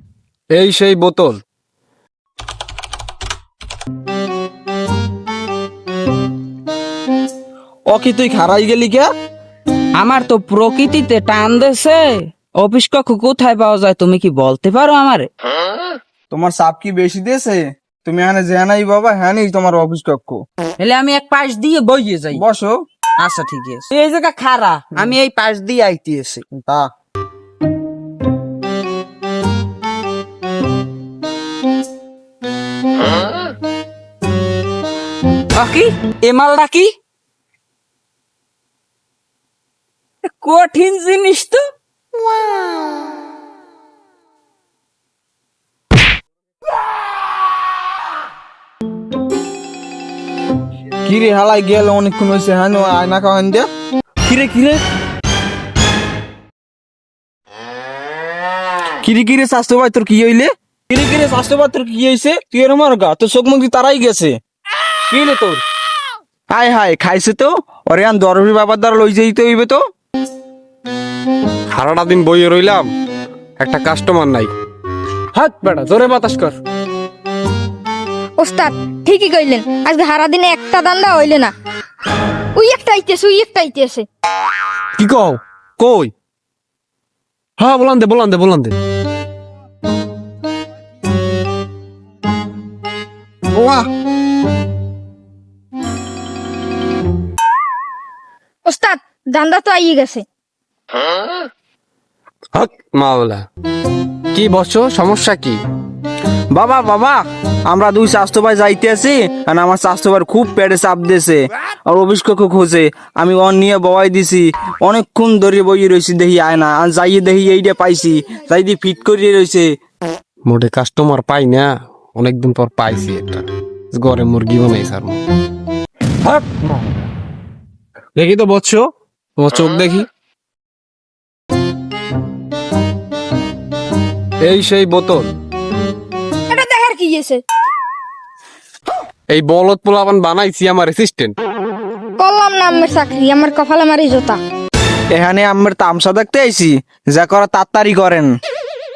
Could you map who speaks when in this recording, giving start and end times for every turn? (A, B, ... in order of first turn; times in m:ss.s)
0:00.5-0:01.4 A
0:07.9-0:09.1 B
0:09.9-0:15.3 C
0:16.3-0:20.4 B
0:20.8-0:22.4 C
0:22.3-0:22.8 B
0:23.2-0:26.5 C
0:26.5-0:26.9 B
0:35.5-0:37.0 C
0:40.2-0:41.6 C
0:51.0-0:53.7 B
0:54.3-0:54.8 B
0:59.0-1:04.4 B
1:05.1-1:05.6 B
1:06.5-1:09.8 B
1:11.7-1:12.9 A
1:13.6-1:14.5 A
1:15.3-1:16.6 A
1:18.4-1:21.5 D
1:22.6-1:24.1 D
1:25.0-1:26.1 A
1:27.6-1:28.8 A
1:33.5-1:33.9 B
1:38.6-1:40.2 D
1:42.5-1:43.4 A
1:44.3-1:45.6 A
1:46.5-1:59.7 B
2:00.4-2:05.2 A
2:06.2-2:07.0 A
2:08.2-2:10.1 A
2:14.4-2:15.3 A
2:16.5-2:17.4 D
2:19.3-2:21.4 A
2:22.2-2:24.4 D
2:25.1-2:28.3 B